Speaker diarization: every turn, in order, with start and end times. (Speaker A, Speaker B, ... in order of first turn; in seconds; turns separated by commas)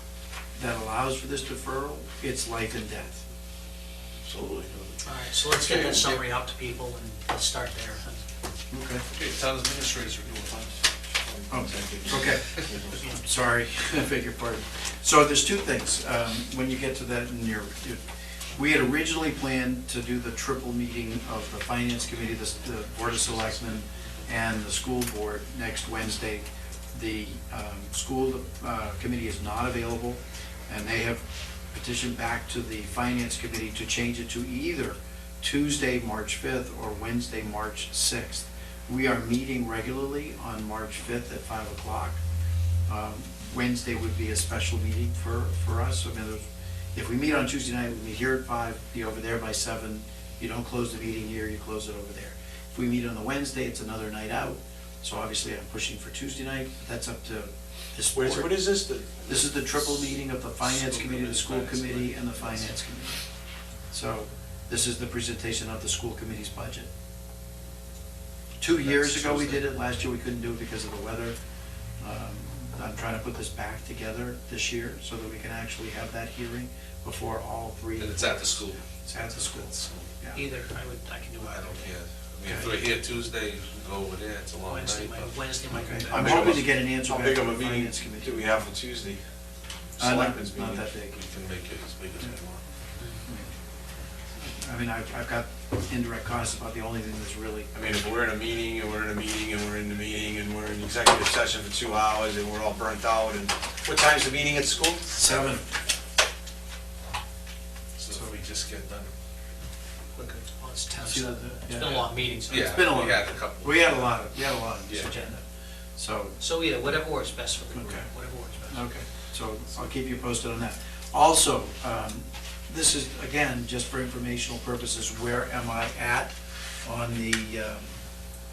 Speaker A: 0.6-3.2, Speaker B: 4.3-5.0, Speaker C: 5.0-8.2, Speaker B: 5.6-6.0, Speaker A: 8.7-9.0, Speaker D: 9.1-10.7, Speaker B: 11.2-13.1, Speaker A: 11.5-12.4, Speaker A: 13.2-18.0, Speaker A: 18.6-42.2, Speaker A: 42.9-46.4, Speaker A: 47.0-58.6, Speaker B: 58.2-59.9, Speaker A: 59.3-63.2, Speaker D: 60.6-62.8, Speaker A: 63.9-66.9, Speaker A: 68.6-71.4, Speaker D: 68.8-69.7, Speaker A: 72.0-80.4, Speaker D: 78.0-80.1, Speaker C: 80.3-81.9, Speaker D: 81.4-85.3, Speaker C: 84.7-86.7, Speaker A: 85.7-88.5, Speaker B: 86.1-89.2, Speaker B: 90.0-90.9, Speaker A: 90.0-91.2, Speaker D: 91.2-92.6, Speaker A: 93.3-93.5, Speaker A: 94.4-97.7, Speaker B: 97.7-105.0, Speaker A: 105.1-105.7, Speaker D: 108.0-109.1, Speaker C: 110.2-113.1, Speaker A: 111.0-115.4, Speaker D: 112.5-114.1, Speaker A: 116.0-116.4, Speaker C: 116.4-118.8, Speaker A: 117.8-118.1, Speaker A: 118.7-127.9